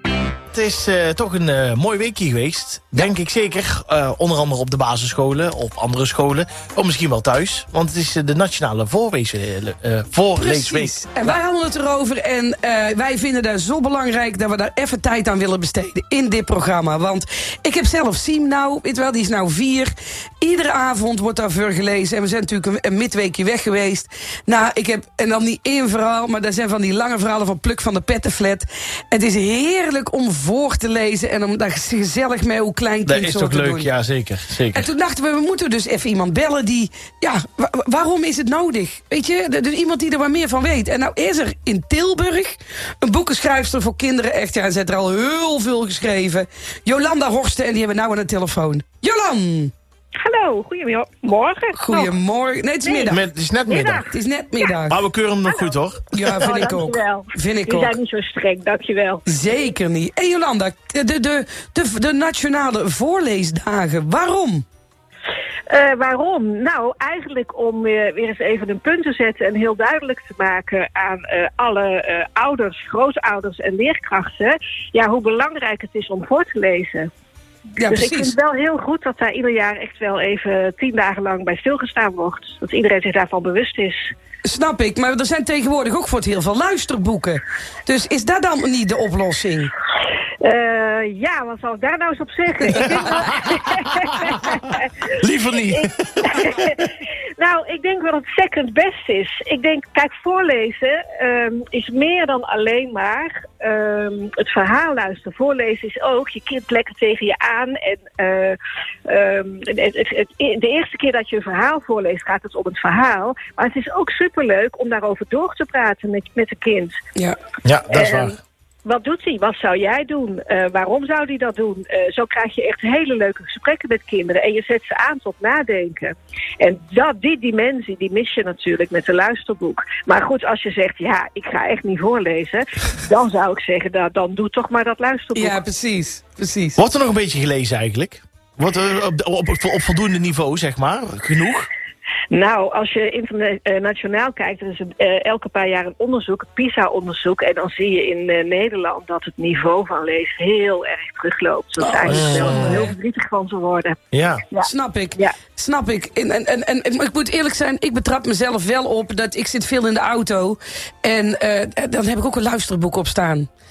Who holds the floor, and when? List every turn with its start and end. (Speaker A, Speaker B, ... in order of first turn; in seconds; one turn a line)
Speaker A: 0.5-11.4
Speaker B: 10.4-33.9
Speaker A: 33.1-34.9
Speaker B: 34.7-49.7
Speaker C: 50.2-52.1
Speaker B: 51.7-53.2
Speaker C: 52.8-54.6
Speaker A: 53.1-54.1
Speaker B: 54.1-55.0
Speaker A: 54.9-56.5
Speaker B: 56.1-57.9
Speaker C: 56.3-59.2
Speaker B: 59.3-64.7
Speaker C: 65.7-77.1
Speaker B: 77.8-78.3
Speaker C: 77.9-84.1
Speaker B: 84.4-89.7
Speaker C: 90.4-94.9
Speaker A: 92.8-93.4
Speaker A: 95.1-96.8
Speaker C: 95.7-108.6
Speaker C: 109.1-117.0
Speaker A: 117.7-118.3
Speaker C: 117.9-135.6
Speaker B: 135.3-136.8
Speaker A: 136.8-141.7
Speaker C: 142.3-154.0
Speaker B: 151.8-152.9
Speaker A: 152.1-152.9
Speaker A: 154.1-154.4
Speaker C: 154.5-155.3
Speaker B: 154.6-163.5